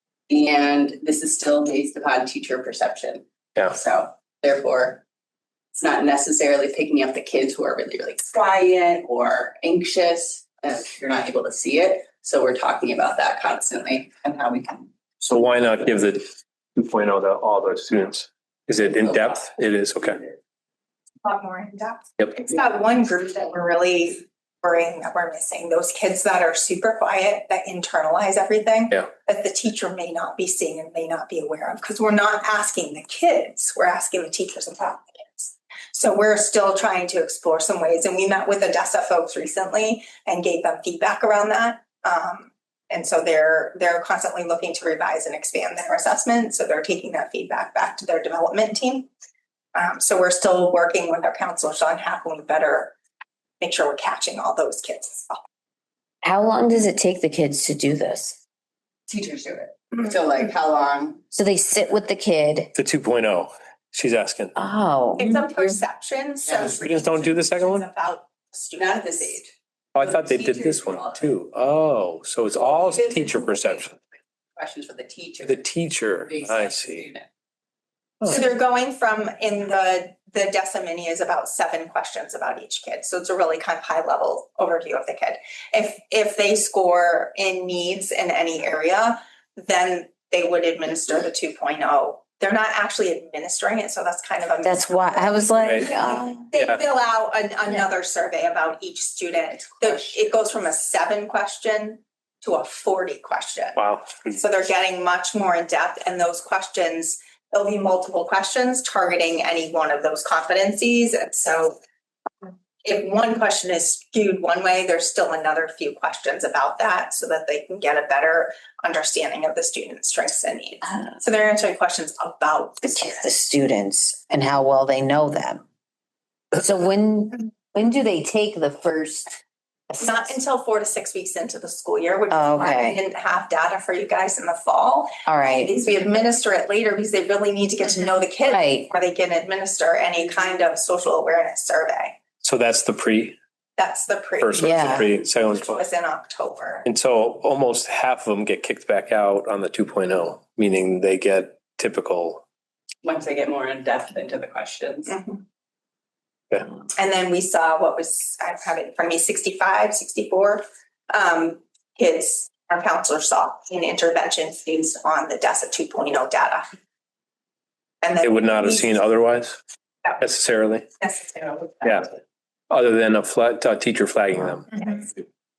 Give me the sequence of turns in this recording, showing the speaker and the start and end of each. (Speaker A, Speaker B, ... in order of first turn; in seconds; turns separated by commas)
Speaker A: 0.3-5.0, Speaker A: 5.7-14.9, Speaker B: 15.2-16.2, Speaker B: 16.8-20.2, Speaker C: 21.2-49.1, Speaker C: 49.7-52.9, Speaker C: 53.6-55.4, Speaker D: 56.2-58.4, Speaker A: 59.1-61.2, Speaker D: 61.3-62.7, Speaker B: 62.7-64.5, Speaker D: 64.5-65.7, Speaker C: 65.2-69.3, Speaker A: 66.4-66.8, Speaker B: 66.7-67.9, Speaker A: 68.8-71.3, Speaker B: 69.9-73.9, Speaker A: 72.5-74.0, Speaker A: 74.5-77.3, Speaker B: 75.4-77.1, Speaker C: 78.3-111.8, Speaker D: 94.6-96.4, Speaker B: 95.6-95.9, Speaker B: 96.5-96.8, Speaker B: 103.8-104.2, Speaker C: 112.4-123.4, Speaker D: 122.9-125.6, Speaker D: 126.5-129.4, Speaker D: 129.9-130.2, Speaker C: 130.0-142.2, Speaker D: 132.3-133.0, Speaker D: 135.2-135.7, Speaker D: 138.4-138.9, Speaker B: 142.4-143.4, Speaker C: 143.8-146.9, Speaker B: 144.4-145.8, Speaker D: 144.6-145.1, Speaker B: 146.8-152.4, Speaker A: 153.0-155.2, Speaker C: 155.1-155.4, Speaker C: 156.9-166.7, Speaker C: 168.0-168.9, Speaker B: 168.2-169.6, Speaker B: 170.2-170.9, Speaker C: 171.1-171.8, Speaker B: 171.8-172.1, Speaker B: 172.7-174.7, Speaker C: 174.7-175.0